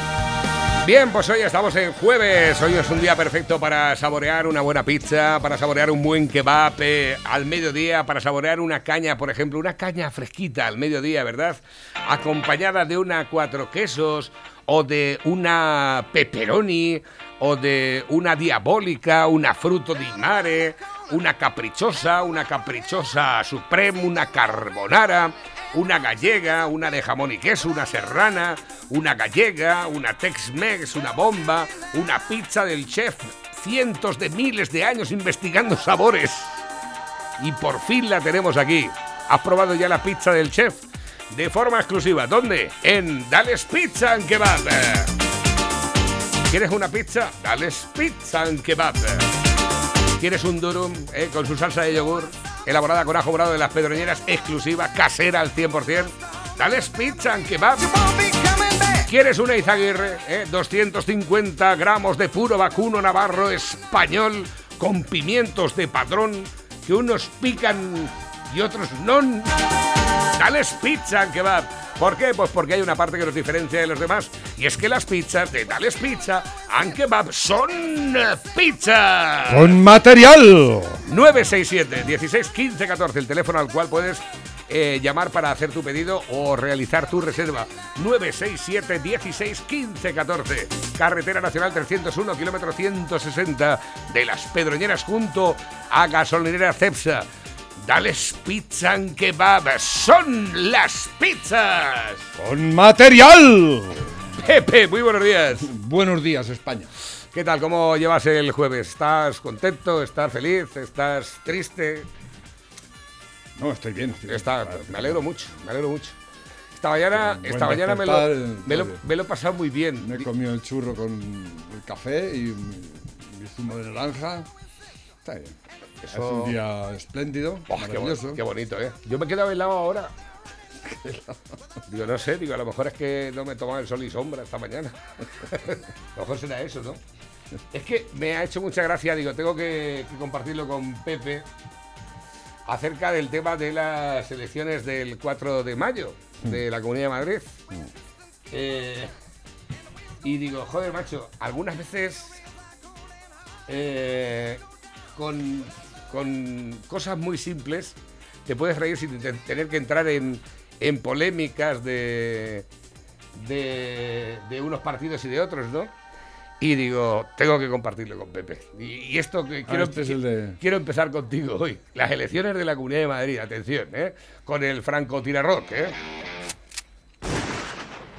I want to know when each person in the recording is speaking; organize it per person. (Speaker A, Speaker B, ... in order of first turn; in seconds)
Speaker A: 0.8-36.6, 37.4-45.1, 46.5-49.3, 50.2-58.0, 58.9-69.6, 70.4-79.8, 81.1-97.3, 97.8-102.3, 104.4-105.7, 107.3-112.1, 114.3-116.2, 116.8-120.3, 126.0-126.6, 127.7-130.1, 131.9-137.0, 137.7-141.4, 142.7-147.6, 148.5-149.1, 150.2-152.4, 153.7-154.6, 155.2-158.0, 158.5-162.7, 163.4-165.9, 166.6-175.9
Speaker B: 79.5-81.0, 102.4-104.1, 105.6-106.9, 113.6-115.2, 117.1-119.0, 120.0-124.5, 125.2-125.6, 126.1-128.4, 130.8-131.4, 169.7-170.6